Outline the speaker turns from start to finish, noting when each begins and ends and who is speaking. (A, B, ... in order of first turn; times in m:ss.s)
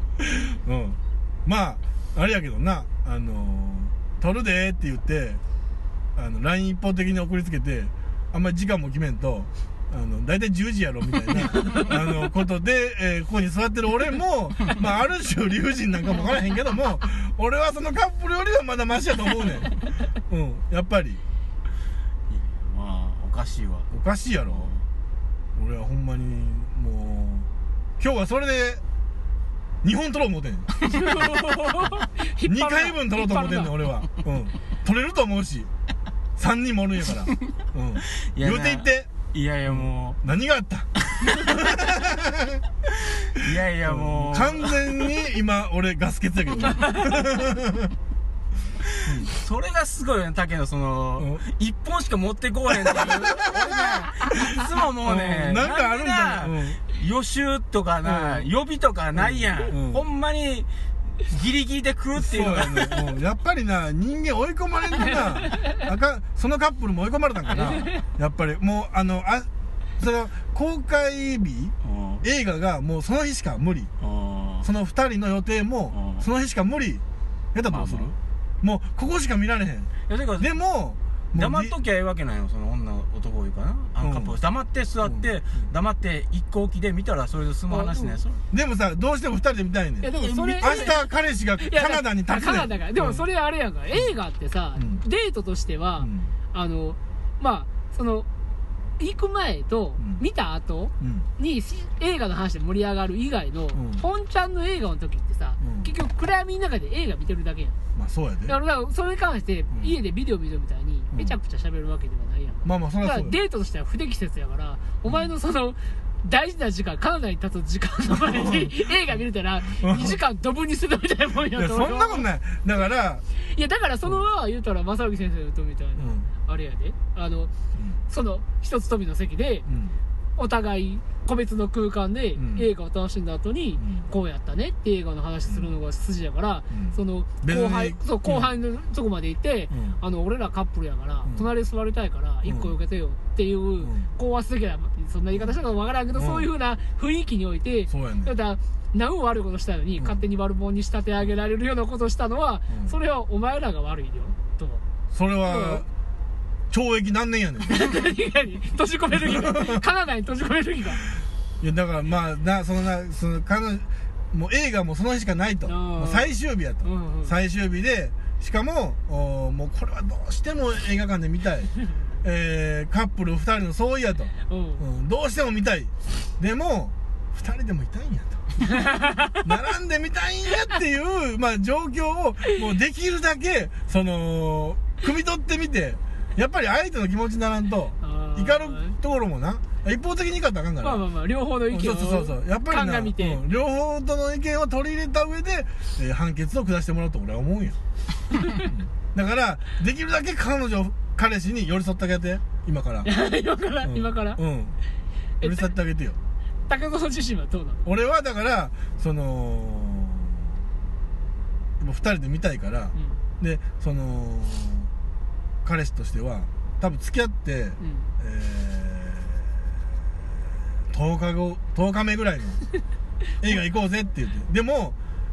0:00.2-0:05.4 A
0:06.1-0:19.8 A
0:20.3-0:21.2 A
0:22.3-0:23.9 B
0:23.9-0:24.7 A
0:24.5-0:24.8 B
0:25.6-0:27.5 A
0:28.0-0:28.8 A
0:29.8-0:30.7 A
0:30.8-0:31.2 B
0:30.9-0:33.8 C
0:32.4-0:35.7 A
0:36.4-0:39.1 A
0:38.2-0:40.2 B
0:39.7-0:42.6 A
0:41.1-0:41.8 B
0:42.9-0:45.2 B
0:43.8-0:47.9 A
0:46.8-0:47.1 C
0:48.8-1:00.7 B
0:49.0-0:49.3 A
0:51.2-0:51.4 A
0:52.8-0:56.8 A
0:58.0-0:58.5 A
0:59.2-1:00.0 A
1:01.2-1:03.1 B
1:02.2-1:13.9 A
1:07.5-1:07.8 B
1:07.6-1:08.0 C
1:11.8-1:12.2 B
1:14.0-1:14.7 B
1:14.6-1:17.0 A
1:15.9-1:16.3 B
1:17.5-1:21.8 A
1:17.7-1:18.1 B
1:20.1-1:20.5 B
1:21.3-1:28.4 B
1:24.0-1:24.4 A
1:27.7-1:28.2 C
1:28.5-1:33.2 A
1:30.0-1:31.0 C
1:30.1-1:31.0 B
1:31.6-1:38.3 C
1:34.8-1:35.0 A
1:36.0-1:36.3 A
1:39.0-1:47.8 C
1:41.0-1:41.3 A
1:43.7-1:44.0 A
1:45.6-1:45.9 A
1:47.9-1:48.5 A
1:48.5-2:02.3 C
1:51.1-1:51.4 A
1:52.6-1:53.4 A
1:55.0-1:55.3 A
1:58.2-1:58.9 A
1:59.8-2:00.2 A
2:01.5-2:03.2 A
2:03.3-2:07.5 C
2:06.0-2:06.3 A
2:08.1-2:09.6 C
2:09.7-2:10.0 A
2:10.4-2:34.8 C
2:12.4-2:12.7 A
2:13.8-2:14.1 A
2:15.5-2:15.7 A
2:16.7-2:18.5 A
2:19.7-2:20.0 A
2:22.4-2:22.8 A
2:23.8-2:24.1 A
2:26.1-2:26.5 A
2:27.9-2:28.3 A
2:35.1-2:35.9 A
2:35.4-2:35.8 C
2:36.7-2:37.9 A
2:37.7-2:41.0 C
2:39.1-2:39.8 A
2:41.6-2:58.4 A
2:45.6-2:47.3 C
2:54.5-2:54.8 C
2:58.6-2:59.4 C
2:59.4-3:11.0 A
3:08.0-3:09.0 C
3:10.8-3:13.4 C
3:11.7-3:17.8 A
3:18.6-3:23.1 A
3:23.0-3:24.4 C
3:23.8-3:24.8 A
3:25.4-3:25.7 C
3:25.4-3:26.2 A
3:26.7-3:27.9 C
3:27.8-3:30.5 A
3:31.8-3:34.9 A
3:35.6-3:39.5 A
3:37.8-3:38.1 C
3:40.9-3:42.6 A
3:43.4-3:45.0 A